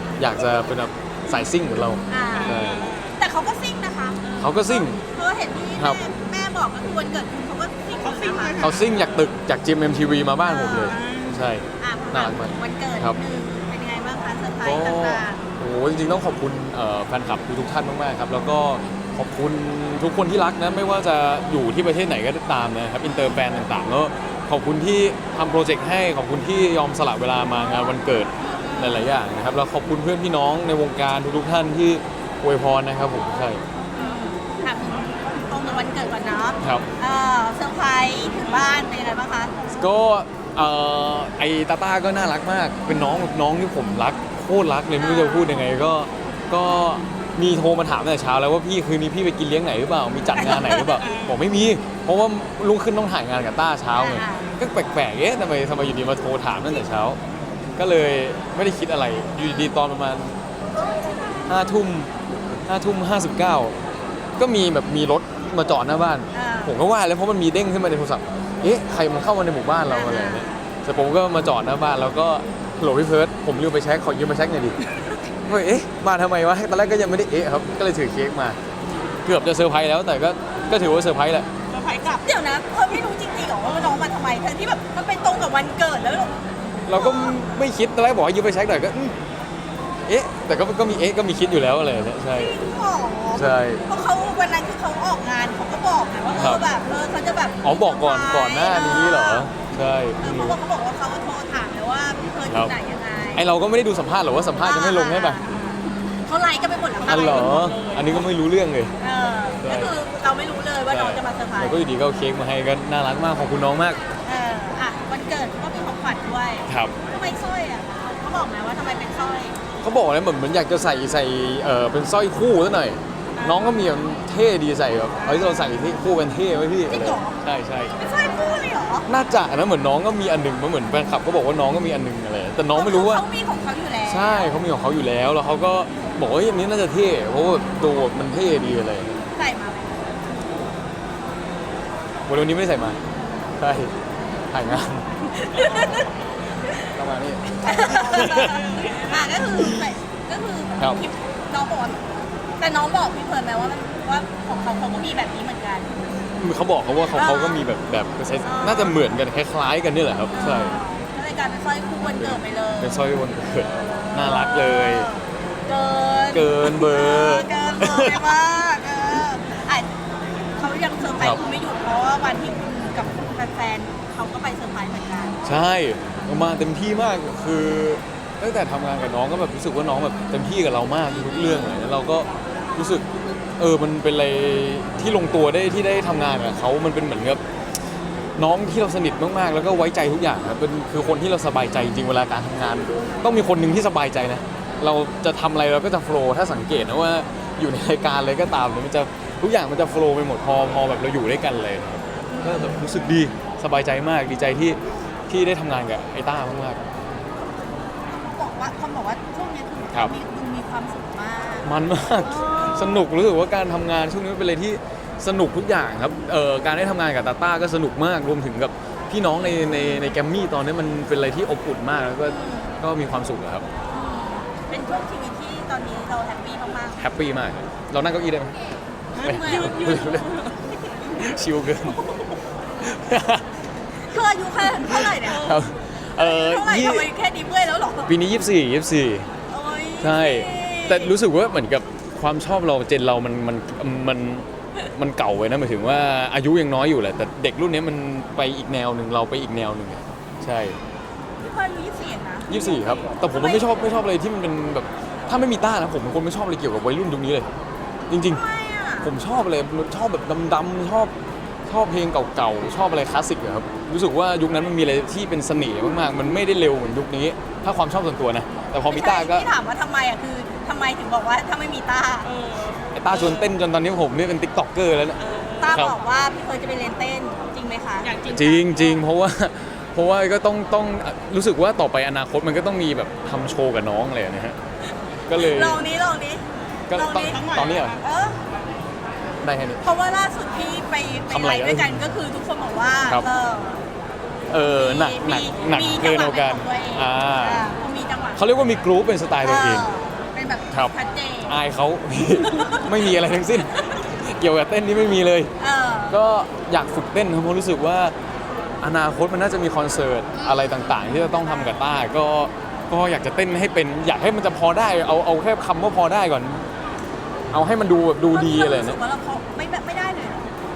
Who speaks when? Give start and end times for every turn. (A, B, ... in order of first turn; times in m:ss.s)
0:00.2-0:02.9 A
0:02.1-0:02.6 B
0:02.3-0:03.1 C
0:03.2-0:08.7 B
0:04.2-0:04.5 C
0:04.4-0:05.0 A
0:08.0-0:09.1 C
0:08.6-0:13.2 A
0:10.4-0:11.0 B
0:10.8-0:11.4 C
0:11.8-0:15.4 B
0:14.6-0:33.6 A
0:23.0-0:23.4 B
0:28.4-0:29.1 B
0:33.9-0:39.5 B
0:36.6-0:36.9 A
0:39.7-0:57.2 A
0:45.0-0:45.7 B
0:50.4-0:50.9 B
0:51.0-0:51.4 C
0:53.9-0:54.5 B
0:57.8-1:00.3 A
1:01.5-1:02.1 A
1:02.6-1:03.8 A
1:04.4-1:14.8 A
1:06.3-1:06.8 B
1:09.9-1:10.6 B
1:15.4-1:18.6 A
1:19.2-1:21.5 A
1:21.7-1:22.2 C
1:22.2-1:26.3 B
1:26.8-1:29.1 A
1:26.9-1:27.4 B
1:30.1-1:32.5 A
1:32.3-1:39.5 B
1:33.3-1:33.8 A
1:36.4-1:36.7 A
1:37.6-1:40.6 A
1:40.2-1:43.5 B
1:42.5-1:42.7 A
1:43.3-1:45.4 A
1:44.6-1:45.6 B
1:45.4-1:45.8 C
1:46.3-1:47.7 B
1:47.0-1:48.3 C
1:47.1-1:48.9 A
1:49.0-1:51.8 B
1:49.6-1:49.9 A
1:50.9-1:54.0 A
1:54.2-1:59.6 B
1:56.7-1:57.0 A
1:59.8-2:07.9 A
2:03.4-2:03.7 C
2:05.2-2:05.5 C
2:06.9-2:07.4 B
2:08.0-2:09.1 B
2:09.1-2:13.2 A
2:12.7-2:14.5 B
2:14.1-2:19.2 A
2:19.3-2:20.2 B
2:22.3-2:23.0 A
2:23.6-2:23.9 A
2:24.5-2:25.1 A
2:25.4-2:26.1 B
2:26.9-2:28.8 A
2:27.6-2:32.0 B
2:28.7-2:29.2 C
2:29.4-2:29.9 A
2:32.6-2:35.9 B
2:36.4-2:40.8 A
2:37.1-2:37.6 B
2:38.4-2:39.0 B
2:40.3-2:43.0 B
2:42.2-2:45.1 A
2:44.0-2:49.9 B
2:46.3-2:48.4 A
2:50.6-2:55.5 B
2:55.4-3:03.0 A
3:01.1-3:01.8 B
3:03.6-3:07.4 A
3:08.4-3:26.8 A
3:22.3-3:22.8 B
3:28.1-3:33.1 B
3:31.6-3:43.6 A
3:39.6-3:40.1 B
3:42.2-3:42.8 B
3:43.9-3:47.0 B
3:47.0-3:48.6 A
3:49.2-3:50.6 C
3:49.2-3:49.7 B
3:49.2-3:50.3 A
3:51.2-3:52.0 A
3:52.8-3:53.4 A
3:53.9-3:55.6 B
3:54.9-3:57.1 A
3:55.2-3:55.6 C
3:56.2-3:58.1 B
3:58.1-3:59.3 A
3:59.5-4:01.1 B
4:00.0-4:10.8 A
4:11.4-4:14.0 B
4:12.5-4:17.5 A
4:18.1-4:18.4 A
4:18.1-4:19.1 B
4:19.0-4:21.1 A
4:21.7-4:29.5 A
4:28.8-4:32.3 B
4:32.2-4:33.2 C
4:32.9-4:35.2 A
4:35.2-4:35.8 C
4:35.6-4:38.1 B
4:35.7-4:36.0 A
4:38.0-4:39.0 C
4:38.3-4:44.6 A
4:45.3-4:45.8 A
4:45.3-4:48.4 B
4:46.9-4:48.0 A
4:47.2-4:48.0 C
4:49.4-4:49.8 A
4:49.8-4:53.8 B
4:51.3-4:52.0 A
4:54.5-4:57.7 A
4:54.6-4:58.4 B
4:58.4-4:59.9 A
4:59.4-5:01.6 B
5:01.4-5:05.5 A
5:02.4-5:02.9 B
5:05.6-5:06.2 B
5:06.1-5:08.1 A
5:08.8-5:16.6 A
5:10.3-5:11.9 B
5:17.5-5:19.0 A
5:18.3-5:20.5 B